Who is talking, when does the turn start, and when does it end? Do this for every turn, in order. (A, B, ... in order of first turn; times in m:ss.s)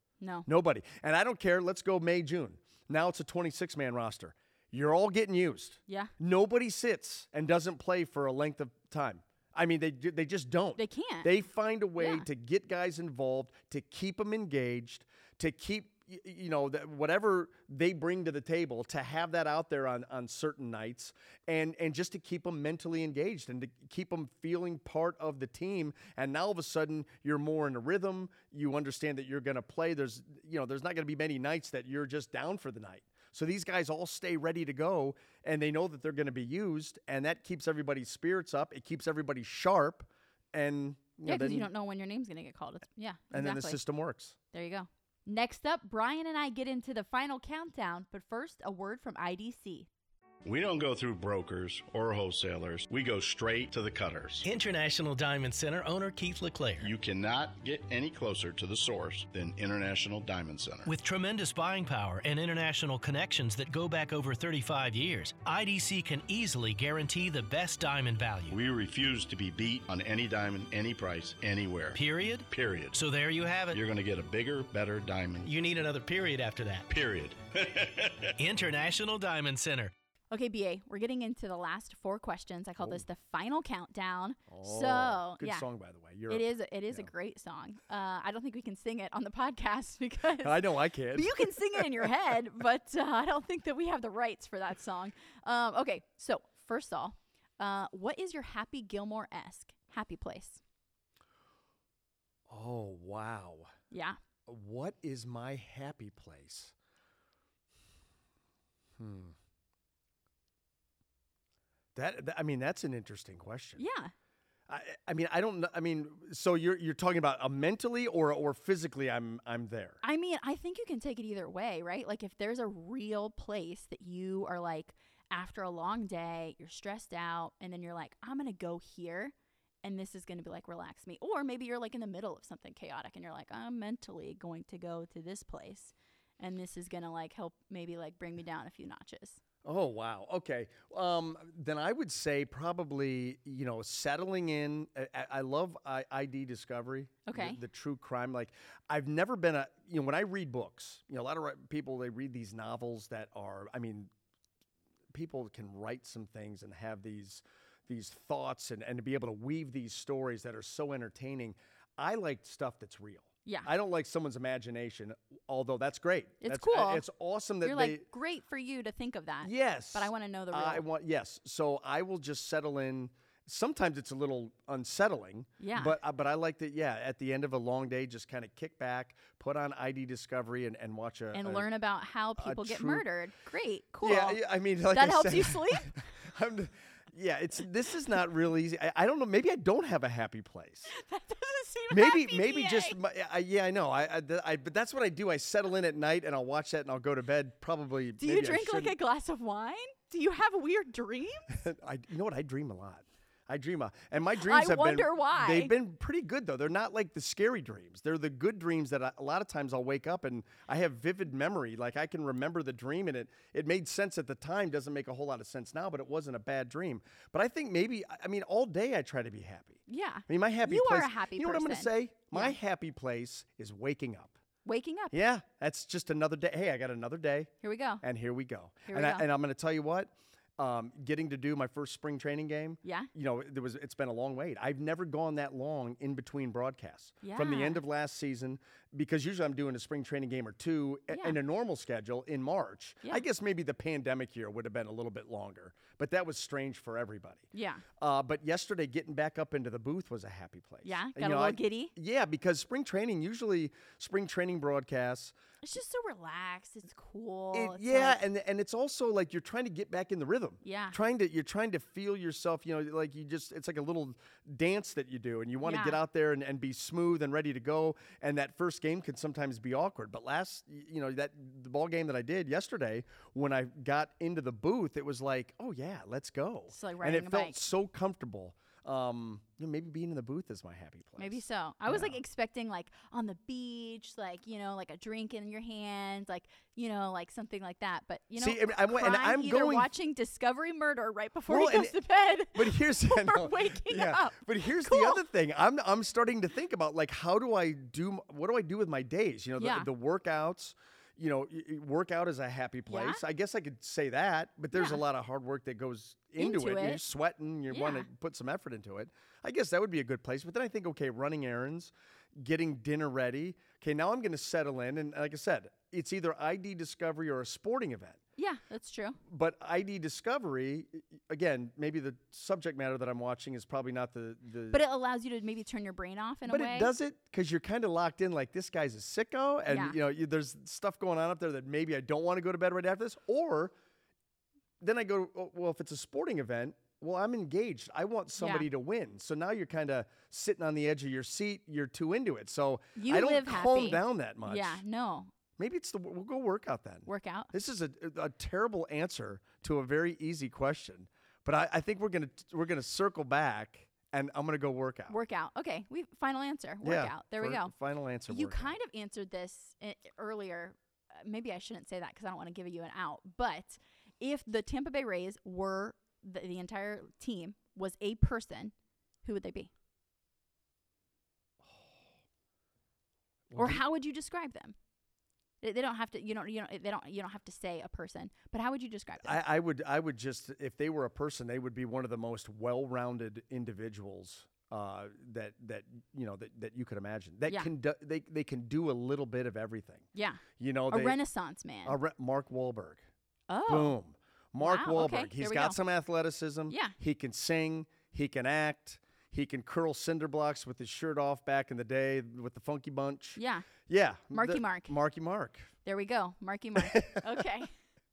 0:00.2-0:00.5 A
0:00.5-0:41.7 B
0:10.8-0:11.3 A
0:12.0-0:12.2 A
0:41.2-0:43.8 A
0:43.3-0:44.4 B
0:44.5-0:49.9 A
0:50.4-0:54.5 C
0:54.4-0:56.9 D
0:56.8-1:00.9 C
1:00.9-1:08.6 D
1:08.5-1:13.0 C
1:11.9-1:13.8 D
1:13.7-1:15.5 C
1:15.4-1:16.9 D
1:16.9-1:18.3 C
1:18.4-1:19.9 D
1:20.3-1:25.7 A
1:24.5-1:27.1 B
1:26.3-1:40.6 A
1:30.4-1:32.1 B
1:42.5-1:43.7 B
1:43.9-1:44.2 A
1:44.5-1:46.7 B
1:49.0-1:49.4 B
1:52.0-1:53.8 B
1:53.8-1:54.1 A
1:54.7-2:00.0 B
2:00.0-2:19.4 A
2:19.6-2:34.1 B
2:27.3-2:27.6 A
2:35.1-2:48.1 B
2:46.4-2:47.0 A
2:47.6-2:50.8 A
2:49.4-3:01.7 B
2:55.6-2:56.0 A
3:01.3-3:06.1 A
3:02.4-3:03.0 B
3:04.0-3:10.9 B
3:10.9-3:13.0 A
3:11.9-3:19.0 B
3:18.2-3:21.6 A
3:21.5-3:44.3 B
3:24.2-3:25.7 A
3:39.9-3:42.6 A
3:44.6-3:45.2 A
3:45.1-4:15.3 B
3:47.6-3:48.0 A
3:48.9-3:49.3 A
3:52.8-3:53.1 A
3:57.2-3:57.8 A
4:01.1-4:01.4 A
4:07.5-4:07.9 A
4:10.8-4:11.9 A
4:15.6-4:18.2 A
4:17.5-4:42.2 B
4:20.6-4:21.0 A
4:25.6-4:26.0 A
4:36.7-4:37.6 A
4:41.2-4:55.2 A
4:48.4-4:49.9 B
4:51.5-4:52.0 B
4:52.5-5:18.2 B
4:59.6-4:59.9 A
5:02.9-5:03.2 A
5:04.7-5:05.0 A
5:06.4-5:07.0 A
5:07.7-5:08.1 A
5:18.4-5:19.2 A
5:19.2-5:24.8 B
5:24.7-5:26.9 A
5:26.5-5:33.7 B
5:29.7-5:30.0 A
5:34.8-5:44.8 B
5:38.4-5:38.7 A
5:43.0-5:45.3 A
5:45.6-5:55.2 B
5:47.1-5:47.5 A
5:55.1-5:57.7 A
5:56.8-5:58.8 B
5:58.3-6:09.7 A
6:11.6-6:11.9 B
6:13.5-6:13.8 B
6:13.6-6:14.8 A
6:15.6-6:19.4 A
6:19.2-6:30.1 B
6:30.1-6:32.0 A
6:30.6-6:31.2 B
6:31.8-6:33.0 B
6:33.5-6:34.0 A
6:33.7-6:45.7 B
6:34.6-6:35.8 A
6:36.7-6:37.0 A
6:43.4-6:43.7 A
6:44.3-6:44.9 A
6:45.8-6:47.7 A
6:46.8-6:47.4 B